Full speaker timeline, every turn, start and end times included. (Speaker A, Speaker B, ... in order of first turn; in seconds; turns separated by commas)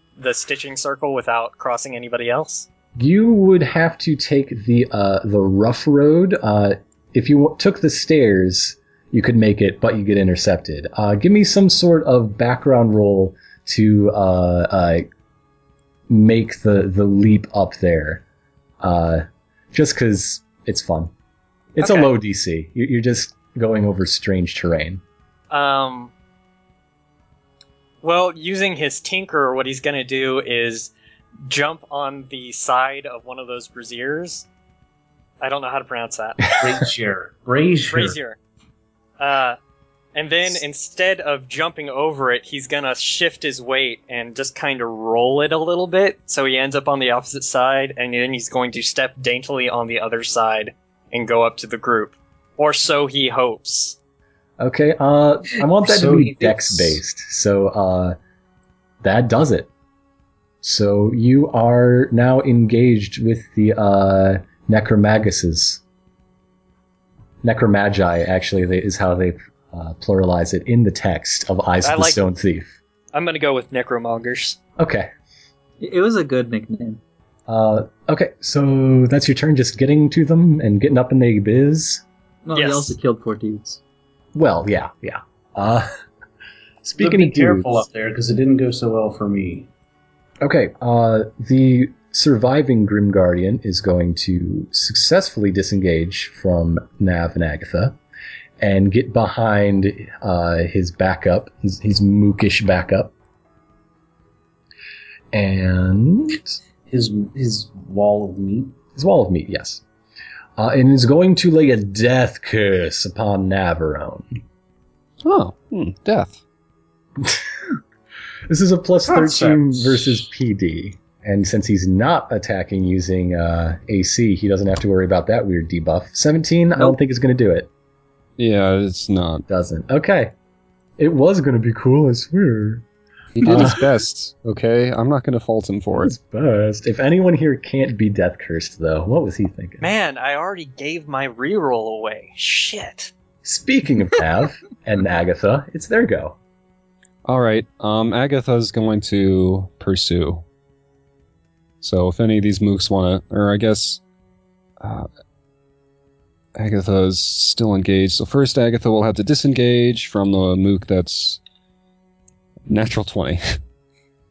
Speaker A: 0.2-2.7, Speaker B: 3.0-15.1, Speaker B: 16.1-18.2, Speaker B: 18.8-21.1, Speaker B: 21.8-25.0, Speaker A: 21.8-22.1, Speaker A: 25.5-26.1, Speaker A: 28.0-30.9, Speaker A: 31.5-34.5, Speaker A: 35.4-36.6, Speaker C: 36.6-38.2, Speaker A: 37.9-38.4, Speaker A: 39.2-39.6, Speaker A: 40.1-54.0, Speaker B: 54.6-58.2, Speaker C: 55.6-57.0, Speaker B: 59.0-59.7, Speaker B: 60.6-65.8, Speaker B: 67.4-72.8, Speaker A: 71.8-72.2, Speaker A: 73.1-74.6, Speaker B: 74.8-75.1, Speaker D: 75.8-77.0, Speaker B: 77.5-82.0, Speaker D: 82.5-83.8, Speaker A: 82.5-83.0, Speaker B: 84.3-85.9, Speaker B: 86.8-87.9, Speaker C: 87.0-89.7, Speaker B: 90.4-98.0, Speaker B: 98.6-103.1, Speaker B: 105.3-106.5, Speaker C: 106.9-108.8, Speaker B: 109.0-109.8, Speaker B: 110.6-114.4, Speaker E: 115.2-116.4, Speaker B: 117.2-117.8, Speaker B: 118.5-127.7, Speaker C: 119.1-120.2, Speaker E: 128.4-129.4, Speaker B: 129.5-130.3, Speaker B: 131.0-132.8, Speaker E: 133.4-136.2, Speaker B: 133.4-133.8, Speaker B: 136.0-139.9, Speaker A: 139.8-143.1, Speaker B: 143.4-146.4, Speaker E: 147.2-150.4, Speaker E: 151.8-154.0, Speaker E: 154.8-155.1, Speaker E: 156.6-161.4, Speaker E: 162.7-163.4